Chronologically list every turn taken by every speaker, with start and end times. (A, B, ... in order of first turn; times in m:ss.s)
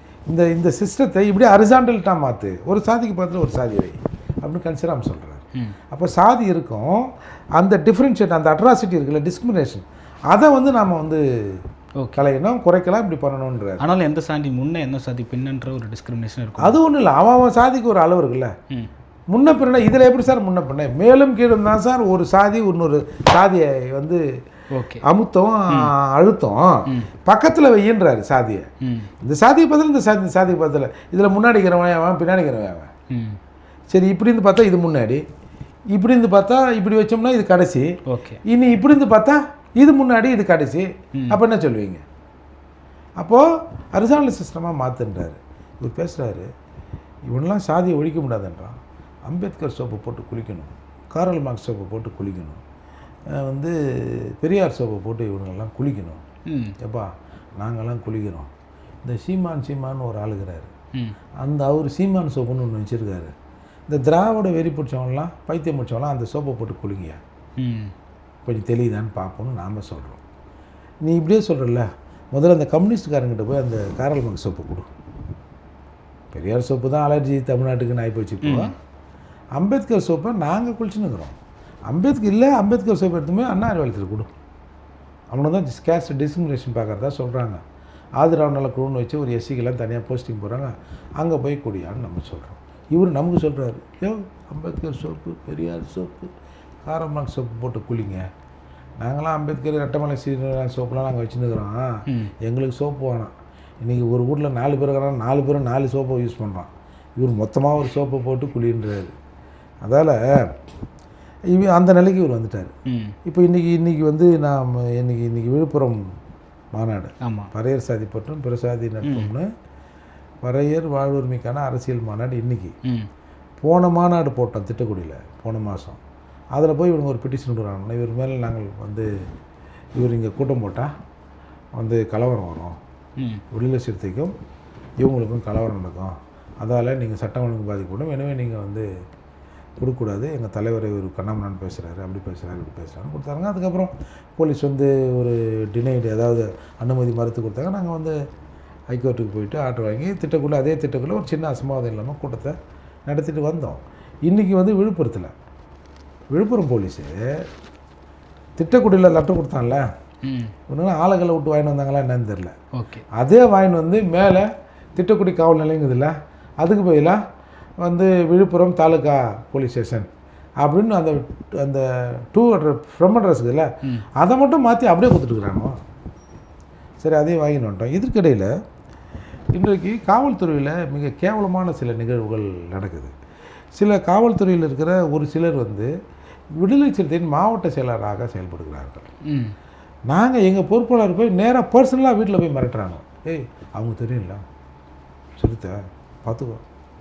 0:00.3-0:11.6 A
0:12.2-0:13.8 A
0:13.8-0:16.8 B
0:16.6-0:18.5 A
0:19.3-0:24.2 A
0:24.7-0:25.1 B
0:25.0-0:28.7 A
0:28.8-0:29.1 B
0:29.2-0:32.9 A
0:33.1-0:33.4 B
0:33.9-0:35.2 A
0:35.9-0:38.0 A
0:38.1-0:38.4 B
0:38.5-0:42.0 A
0:43.2-0:46.5 A
0:47.3-0:52.6 A
0:53.3-0:56.2 A
0:56.5-0:56.8 B
0:56.8-0:58.5 A
0:59.0-1:00.7 A
1:01.4-1:03.3 A
1:03.9-1:07.2 A
1:07.6-1:07.9 B
1:08.4-1:10.2 A
1:11.0-1:14.9 A
1:16.3-1:18.7 A
1:18.4-1:18.7 B
1:19.6-1:21.4 A
1:21.9-1:24.3 A
1:25.3-1:27.6 A
1:28.2-1:36.3 A
1:36.8-1:38.2 A
1:39.0-1:49.1 A
1:42.1-1:42.3 B
1:49.8-1:50.6 A
1:51.5-1:52.7 A
1:52.9-1:53.1 B
1:53.2-1:56.0 A
1:56.7-1:59.5 A
1:57.2-1:57.5 B
1:59.0-1:59.3 B
2:00.4-2:02.8 A
2:03.6-2:06.0 A
2:06.5-2:09.1 A
2:10.0-2:10.9 A
2:11.8-2:12.8 A
2:13.2-2:13.4 B
2:13.5-2:14.3 A
2:15.0-2:18.9 A
2:19.8-2:28.2 A
2:28.9-2:32.6 A
2:33.1-2:35.3 A
2:36.3-2:37.4 A
2:38.6-2:39.9 A
2:40.2-2:40.5 B
2:40.7-2:42.6 A
2:42.7-2:43.0 B
2:43.1-2:47.2 A
2:47.8-2:50.1 A
2:50.6-2:55.8 A
2:57.0-2:58.5 A
2:59.5-3:03.1 A
3:03.8-3:05.9 A
3:06.6-3:09.1 A
3:09.2-3:09.5 B
3:10.1-3:14.4 A
3:15.4-3:16.6 A